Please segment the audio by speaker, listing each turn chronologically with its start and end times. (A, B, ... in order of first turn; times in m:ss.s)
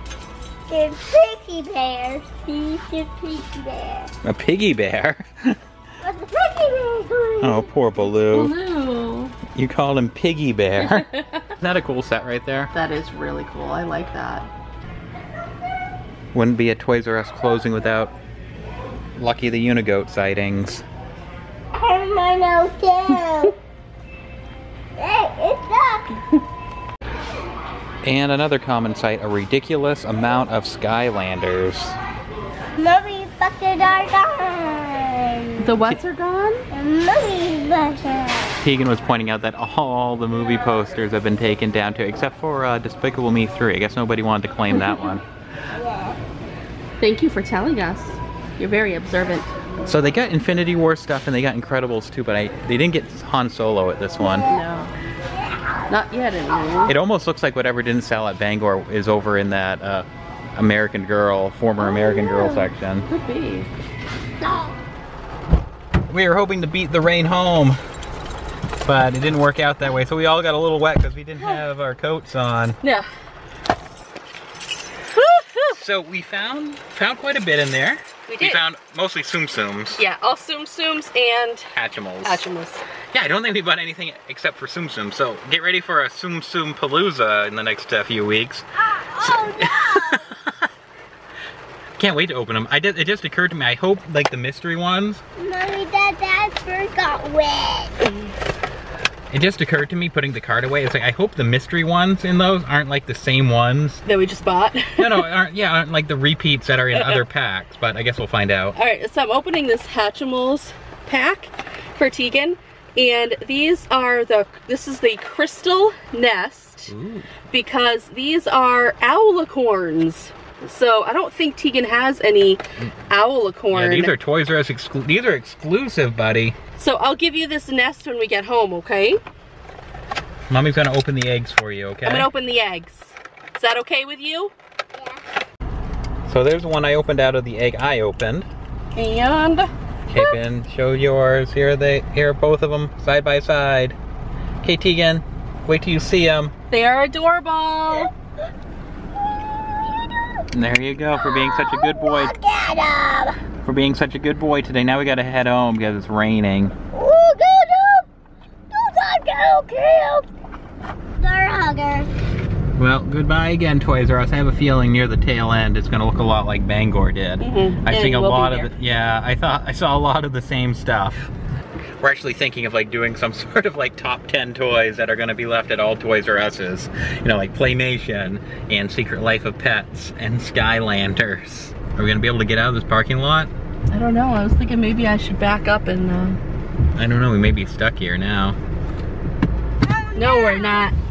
0:00.7-0:04.1 A
0:04.2-0:05.6 B
0:06.0-0:07.7 A
0:07.4-0:08.6 B
0:08.0-0:09.4 C
0:09.5-0:12.7 B
0:10.8-0:11.5 C
0:12.7-0:14.5 C
0:16.3-0:18.1 B
0:19.2-0:20.8 B
0:21.8-0:23.6 A
0:25.0-0:26.2 A
0:28.0-0:32.0 B
0:32.8-0:35.8 A
0:35.6-0:36.7 C
0:36.7-0:38.6 A
0:38.6-0:45.2 B
0:45.7-0:46.2 A
0:47.0-0:49.7 C
0:49.8-0:54.5 B
0:54.2-0:54.6 A
0:54.5-0:54.9 C
0:55.9-0:57.0 C
0:56.9-1:03.1 B
1:01.8-1:02.7 A
1:03.1-1:03.7 C
1:04.4-1:04.7 A
1:06.1-1:07.8 B
1:08.8-1:12.8 B
1:12.8-1:13.1 C
1:15.1-1:15.8 C
1:15.7-1:20.0 B
1:18.3-1:18.6 C
1:19.9-1:21.7 C
1:21.7-1:22.5 B
1:22.2-1:22.8 C
1:23.1-1:30.7 B
1:28.9-1:30.3 A
1:32.0-1:35.2 B
1:35.4-1:38.0 A
1:39.3-1:44.0 B
1:44.0-1:45.3 C
1:45.0-1:48.8 B
1:48.8-1:56.9 C
1:56.9-1:57.3 B
1:57.5-2:04.1 C
2:03.7-2:06.6 B
2:06.8-2:09.2 C
2:10.5-2:12.3 B
2:12.0-2:14.5 C
2:14.9-2:15.2 A
2:16.3-2:18.5 B
2:19.0-2:19.7 C
2:20.1-2:24.0 B
2:24.6-2:26.5 B
2:26.7-2:28.1 C
2:29.6-2:30.4 A
2:30.5-2:32.4 B
2:31.1-2:33.4 A
2:33.6-2:36.8 B
2:36.9-2:38.1 A
2:38.7-2:40.3 A
2:41.2-2:42.1 A
2:42.8-2:51.3 B
2:47.4-2:48.7 C
2:52.0-3:03.5 B
3:03.9-3:06.4 C
3:07.0-3:08.6 B
3:09.8-3:10.9 A
3:10.1-3:10.9 C